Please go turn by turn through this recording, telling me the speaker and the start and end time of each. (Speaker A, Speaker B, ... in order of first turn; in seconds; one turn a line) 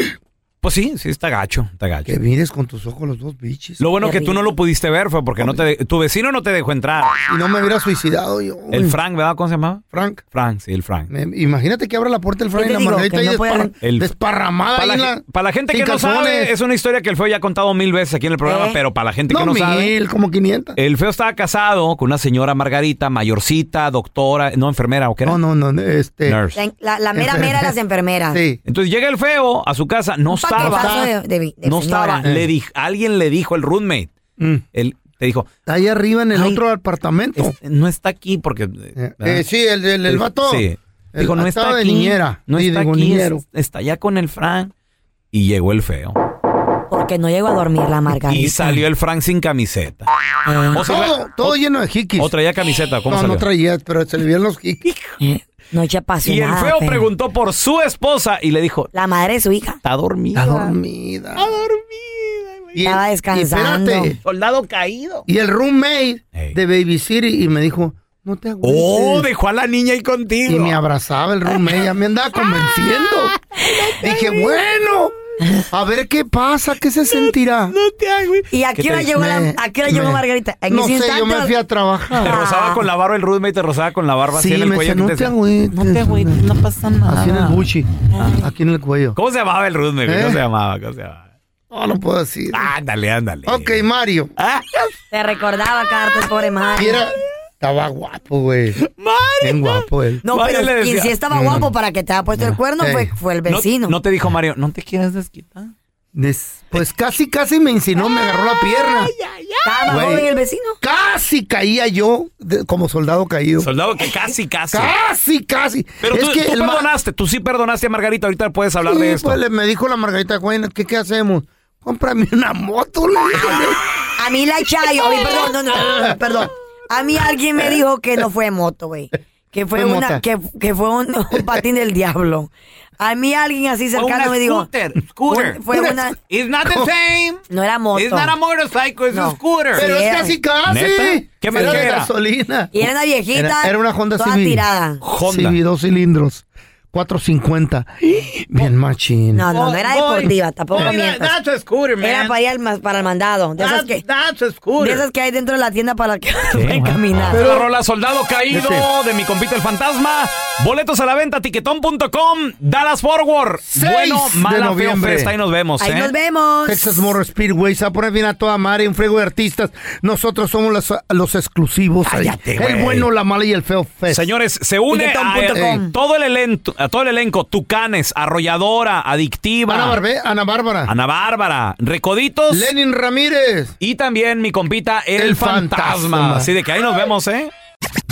Speaker A: 0.6-2.2
Speaker B: 2.0-3.8
Speaker A: 3.8-7.2
Speaker C: 4.0-4.5
Speaker B: 7.3-8.9
Speaker A: 8.7-11.1
Speaker B: 9.9-10.2
Speaker B: 11.1-16.5
Speaker C: 12.5-13.7
Speaker A: 13.8-14.1
Speaker A: 14.7-19.9
Speaker C: 18.4-18.8
Speaker B: 19.3-20.8
Speaker A: 20.8-25.4
Speaker B: 25.2-26.4
Speaker A: 26.3-26.6
Speaker C: 26.5-28.4
Speaker B: 27.1-27.7
Speaker B: 28.3-28.6
Speaker A: 28.6-31.0
Speaker C: 30.3-32.2
Speaker B: 30.6-31.1
Speaker A: 31.6-34.1
Speaker A: 34.7-35.5
Speaker B: 35.6-37.5
Speaker A: 36.3-36.6
Speaker A: 37.4-39.4
Speaker B: 39.0-40.6
Speaker A: 40.0-44.7
Speaker B: 41.1-43.4
Speaker A: 45.3-46.2
Speaker C: 46.9-48.8
Speaker A: 48.2-50.1
Speaker C: 50.5-50.8
Speaker A: 50.7-51.6
Speaker B: 50.8-52.3
Speaker A: 52.2-53.5
Speaker B: 53.1-54.8
Speaker A: 54.8-55.2
Speaker C: 55.2-57.0
Speaker A: 56.2-58.9
Speaker C: 58.9-59.8
Speaker A: 59.8-60.7
Speaker B: 60.3-61.4
Speaker A: 61.4-62.7
Speaker B: 62.7-64.2
Speaker C: 62.8-64.2
Speaker A: 64.2-65.2
Speaker B: 65.3-69.3
Speaker A: 68.6-70.8
Speaker B: 70.5-73.3
Speaker A: 71.4-71.9
Speaker A: 72.4-72.8
Speaker A: 73.3-74.6
Speaker B: 74.0-75.1
Speaker B: 75.7-77.7
Speaker A: 77.2-79.1
Speaker C: 78.5-81.5
Speaker B: 79.1-82.4
Speaker A: 82.1-88.4
Speaker C: 82.2-82.8
Speaker B: 84.3-86.4
Speaker B: 87.1-87.9
Speaker B: 88.4-89.2
Speaker A: 89.2-91.2
Speaker B: 90.0-90.4
Speaker B: 91.7-92.7
Speaker A: 92.5-93.8
Speaker B: 93.5-94.3
Speaker A: 94.4-94.9
Speaker C: 95.1-97.0
Speaker B: 96.8-98.8
Speaker A: 98.8-101.1
Speaker B: 99.4-100.2
Speaker C: 100.2-104.0
Speaker B: 101.3-101.7
Speaker B: 102.8-103.1
Speaker A: 103.5-105.7
Speaker B: 106.1-109.1
Speaker A: 108.0-109.8
Speaker C: 109.6-110.8
Speaker B: 109.9-110.2
Speaker B: 110.8-113.7
Speaker A: 113.6-114.9
Speaker B: 114.7-116.9
Speaker A: 116.0-119.4
Speaker B: 118.8-123.8
Speaker C: 123.3-134.7
Speaker B: 129.7-130.2
Speaker A: 133.9-135.8
Speaker C: 135.3-136.2
Speaker B: 135.7-136.1
Speaker A: 136.3-137.4
Speaker B: 136.6-136.9
Speaker C: 137.5-138.4
Speaker A: 137.9-139.8
Speaker C: 139.1-140.3
Speaker B: 139.7-142.7
Speaker A: 140.7-142.1
Speaker C: 141.5-141.8
Speaker C: 142.7-145.0
Speaker B: 143.3-144.7
Speaker A: 145.0-145.6
Speaker B: 145.2-149.4
Speaker C: 149.3-151.4
Speaker A: 149.5-152.4
Speaker C: 152.0-154.0
Speaker A: 153.6-155.0
Speaker C: 154.8-157.4
Speaker A: 156.5-166.1
Speaker B: 157.3-157.7
Speaker B: 158.5-158.9
Speaker B: 163.7-165.3
Speaker C: 165.8-167.2
Speaker B: 166.7-174.2
Speaker A: 172.0-173.1
Speaker A: 174.1-180.0
Speaker C: 174.9-175.9
Speaker B: 175.5-175.8
Speaker B: 179.7-180.9
Speaker A: 180.9-182.7
Speaker B: 182.5-183.7
Speaker A: 183.8-187.5
Speaker B: 185.2-186.5